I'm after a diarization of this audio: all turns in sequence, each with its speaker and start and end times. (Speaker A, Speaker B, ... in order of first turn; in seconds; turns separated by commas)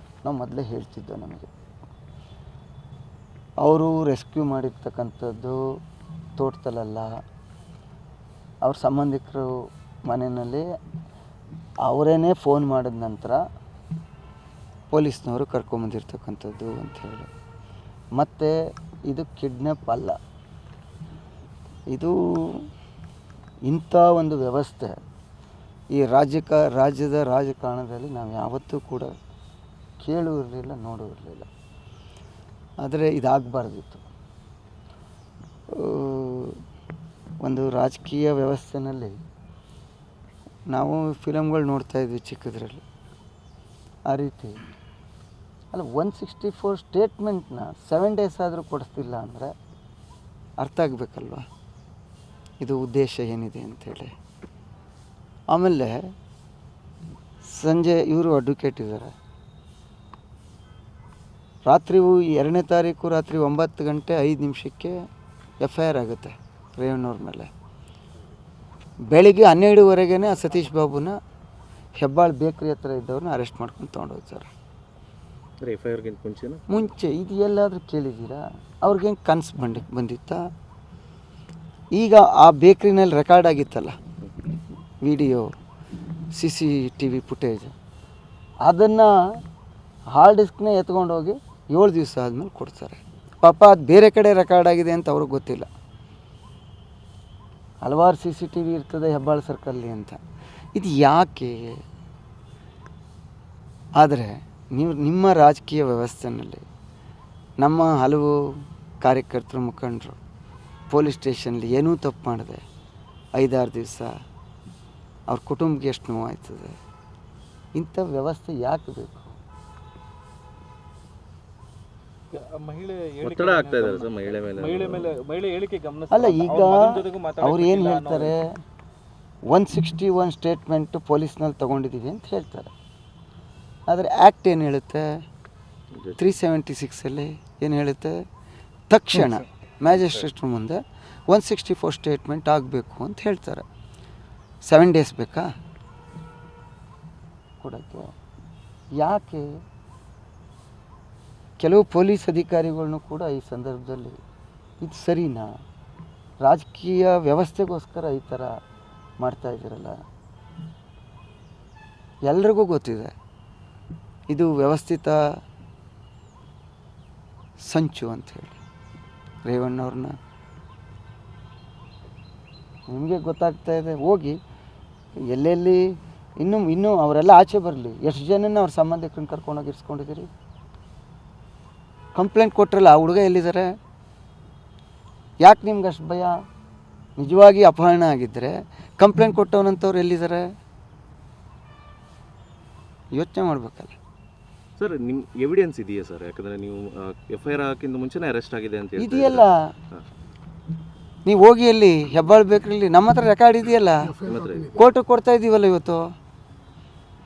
Speaker A: 0.2-1.5, Speaker A: 3.6-5.6, Speaker A: 6.4-7.1, Speaker A: 8.6-9.5, Speaker A: 10.1-10.6, Speaker A: 11.9-13.4, Speaker A: 14.9-17.3, Speaker A: 18.2-18.5, Speaker A: 19.1-20.2, Speaker A: 21.9-22.6, Speaker A: 23.7-25.0, Speaker A: 25.9-29.1, Speaker A: 30.0-31.5, Speaker A: 32.8-34.0, Speaker A: 35.8-36.6, Speaker A: 37.4-39.1, Speaker A: 40.7-42.8, Speaker A: 44.1-44.6, Speaker A: 45.7-49.5, Speaker A: 50.6-51.5, Speaker A: 52.6-54.1, Speaker A: 55.5-56.0, Speaker A: 57.5-59.1, Speaker A: 61.7-64.9, Speaker A: 65.6-67.5, Speaker A: 69.1-71.1, Speaker A: 72.0-74.5, Speaker B: 75.7-76.6, Speaker A: 76.7-80.4, Speaker A: 82.0-84.0, Speaker A: 85.0-85.5, Speaker A: 86.3-87.7, Speaker A: 88.7-89.1, Speaker A: 90.2-95.7, Speaker A: 97.8-100.2, Speaker A: 100.8-101.8, Speaker A: 104.0-106.7, Speaker A: 107.6-108.3, Speaker A: 109.0-110.2, Speaker A: 110.9-112.6, Speaker A: 113.4-114.1, Speaker A: 115.3-116.8, Speaker A: 117.8-119.3, Speaker C: 122.3-128.3, Speaker B: 123.3-125.1, Speaker A: 126.1-128.4, Speaker A: 129.5-132.7, Speaker A: 133.9-135.0, Speaker A: 136.2-138.2, Speaker A: 138.9-143.7, Speaker A: 144.7-145.5, Speaker A: 147.6-148.1, Speaker A: 149.0-149.4, Speaker A: 151.6-154.2, Speaker A: 154.8-155.5, Speaker A: 156.4-158.5, Speaker A: 159.2-160.0, Speaker A: 162.3-163.1, Speaker A: 164.3-165.2, Speaker A: 167.7-168.6, Speaker A: 169.4-170.2, Speaker A: 172.9-174.4, Speaker A: 175.3-175.8, Speaker A: 176.4-180.3, Speaker A: 182.2-183.7, Speaker A: 185.4-186.3, Speaker A: 187.2-190.4, Speaker A: 193.2-194.0, Speaker B: 194.8-196.8, Speaker B: 197.3-199.4, Speaker A: 199.0-199.7, Speaker A: 201.3-204.2, Speaker B: 204.3-204.7, Speaker A: 204.7-206.0